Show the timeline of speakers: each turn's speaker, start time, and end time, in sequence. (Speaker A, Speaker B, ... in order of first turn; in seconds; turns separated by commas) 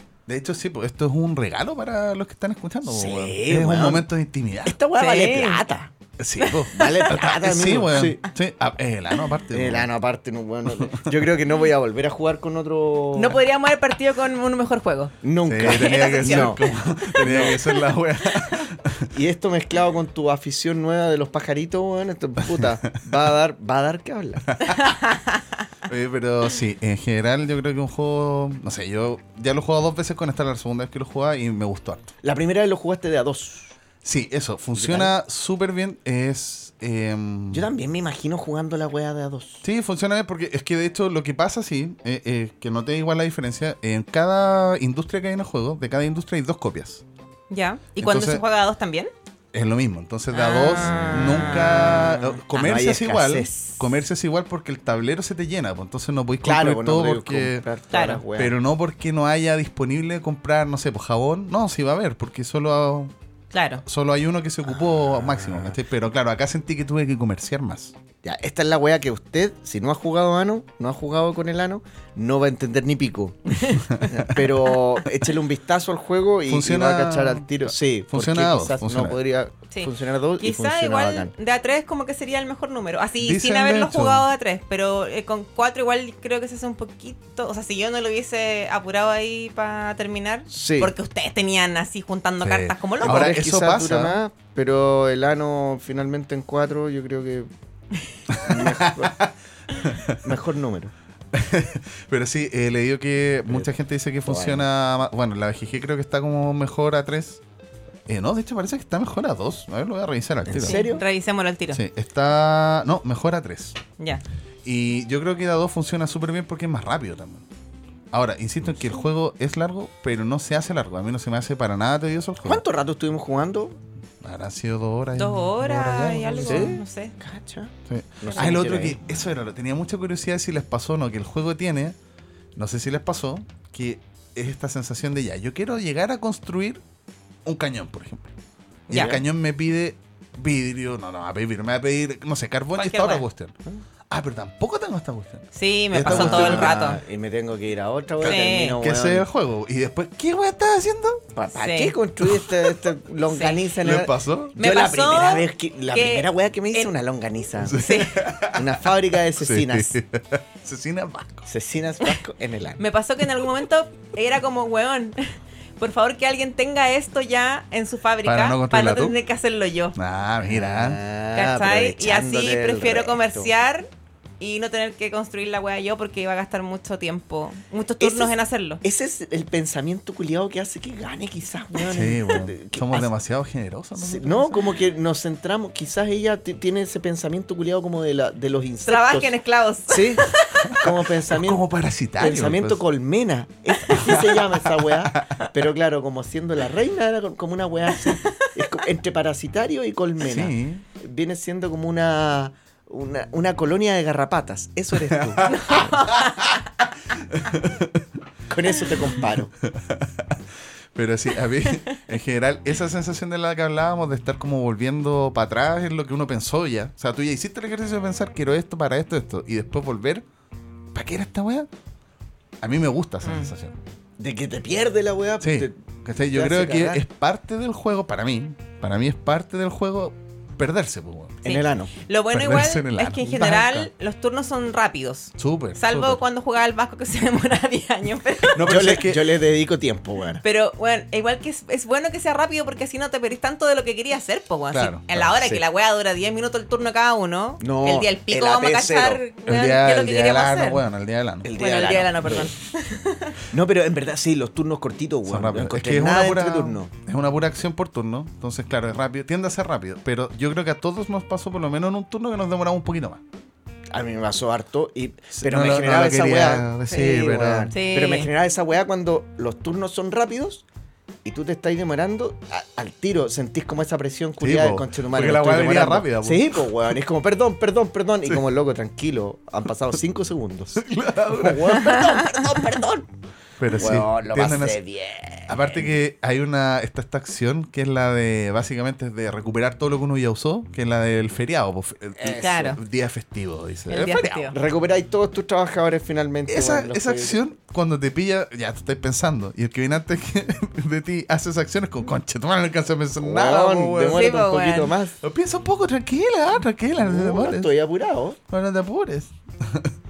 Speaker A: 0.3-4.8, Speaker B: 2.9-4.1, Speaker B: 4.6-5.9, Speaker C: 5.0-5.6, Speaker A: 6.2-9.9, Speaker C: 6.4-7.1, Speaker B: 6.7-8.2, Speaker B: 9.5-13.4, Speaker A: 10.8-11.1, Speaker C: 13.2-17.8, Speaker B: 15.2-16.6, Speaker A: 15.5-19.1, Speaker B: 17.2-17.6, Speaker C: 18.3-18.6, Speaker B: 19.1-24.6, Speaker A: 24.5-24.8, Speaker C: 24.7-25.6, Speaker A: 25.9-32.1, Speaker B: 32.2-33.8, Speaker A: 34.0-37.7, Speaker B: 34.8-35.1, Speaker B: 37.5-39.6, Speaker A: 39.6-47.0, Speaker C: 47.5-49.1, Speaker A: 48.0-48.4, Speaker A: 49.5-57.6, Speaker C: 50.3-52.1, Speaker B: 51.5-53.9, Speaker B: 56.4-58.5, Speaker C: 57.9-58.2, Speaker A: 58.4-63.1, Speaker C: 63.5-63.8, Speaker A: 63.9-67.9, Speaker B: 64.7-65.8, Speaker B: 68.2-81.3, Speaker C: 73.5-74.1, Speaker A: 73.9-74.4, Speaker A: 76.5-79.2, Speaker C: 79.7-93.4, Speaker A: 83.2-84.3, Speaker B: 90.5-90.9, Speaker A: 92.4-94.2, Speaker B: 93.0-97.5, Speaker A: 98.3-100.2, Speaker B: 98.4-99.1, Speaker B: 100.2-100.9, Speaker A: 101.3-107.4, Speaker B: 104.2-104.7, Speaker A: 108.1-110.9, Speaker B: 110.5-111.0, Speaker C: 110.5-111.8, Speaker A: 111.7-113.8, Speaker A: 114.6-117.5, Speaker A: 118.1-122.6, Speaker B: 122.4-123.8, Speaker A: 124.2-126.8, Speaker C: 125.2-127.1, Speaker B: 126.4-129.2, Speaker A: 127.9-132.0, Speaker C: 128.3-128.5, Speaker A: 132.6-136.8, Speaker A: 137.4-138.3, Speaker C: 138.9-139.2, Speaker A: 138.9-143.6, Speaker C: 142.8-143.2, Speaker A: 144.1-146.8, Speaker C: 145.5-147.0, Speaker B: 146.0-149.3, Speaker C: 148.2-148.8, Speaker A: 148.2-151.2, Speaker B: 151.3-157.9, Speaker C: 151.6-151.9, Speaker A: 152.2-152.7, Speaker C: 153.3-153.7, Speaker A: 153.8-154.6, Speaker C: 154.6-156.9, Speaker A: 157.6-158.7, Speaker C: 157.8-158.2, Speaker B: 158.5-160.0, Speaker A: 159.4-161.5, Speaker B: 161.5-162.8, Speaker C: 162.8-165.2, Speaker C: 165.8-169.9, Speaker A: 168.2-169.2, Speaker A: 170.0-171.0, Speaker B: 170.4-173.5, Speaker C: 171.3-173.9, Speaker C: 174.4-178.8, Speaker B: 178.0-183.1, Speaker A: 181.8-184.8, Speaker B: 184.0-189.4, Speaker C: 188.8-190.7, Speaker B: 189.9-191.6, Speaker A: 190.6-192.8, Speaker B: 192.2-205.9, Speaker A: 194.0-194.3, Speaker A: 200.2-200.8, Speaker A: 205.3-206.5, Speaker C: 205.4-206.6, Speaker A: 207.3-208.0, Speaker B: 208.5-209.5, Speaker A: 209.7-210.4, Speaker A: 210.9-220.2, Speaker A: 220.9-221.7, Speaker A: 222.6-223.8, Speaker C: 223.2-223.5, Speaker B: 224.2-225.8, Speaker A: 225.4-231.4, Speaker B: 226.3-227.0, Speaker B: 231.4-231.9, Speaker C: 231.4-238.7, Speaker A: 232.3-233.9, Speaker A: 235.4-236.2, Speaker A: 238.5-239.3, Speaker B: 238.6-240.4, Speaker C: 240.4-250.8, Speaker A: 244.7-245.3, Speaker B: 247.6-249.2, Speaker A: 249.5-251.5, Speaker B: 251.4-252.5, Speaker C: 251.6-253.4, Speaker B: 253.5-256.9, Speaker A: 255.3-263.2, Speaker B: 263.9-270.6, Speaker A: 265.3-267.7, Speaker C: 267.7-268.3, Speaker B: 271.2-283.1, Speaker A: 274.4-276.7, Speaker A: 280.8-282.0, Speaker A: 283.6-284.8, Speaker B: 283.7-285.8, Speaker A: 285.4-294.5, Speaker B: 292.2-292.6, Speaker C: 292.3-292.8, Speaker C: 293.9-294.6, Speaker B: 294.5-297.4, Speaker A: 296.5-304.3, Speaker B: 303.2-305.1, Speaker C: 304.1-304.9, Speaker A: 305.2-307.7, Speaker B: 307.0-308.4, Speaker A: 308.5-309.9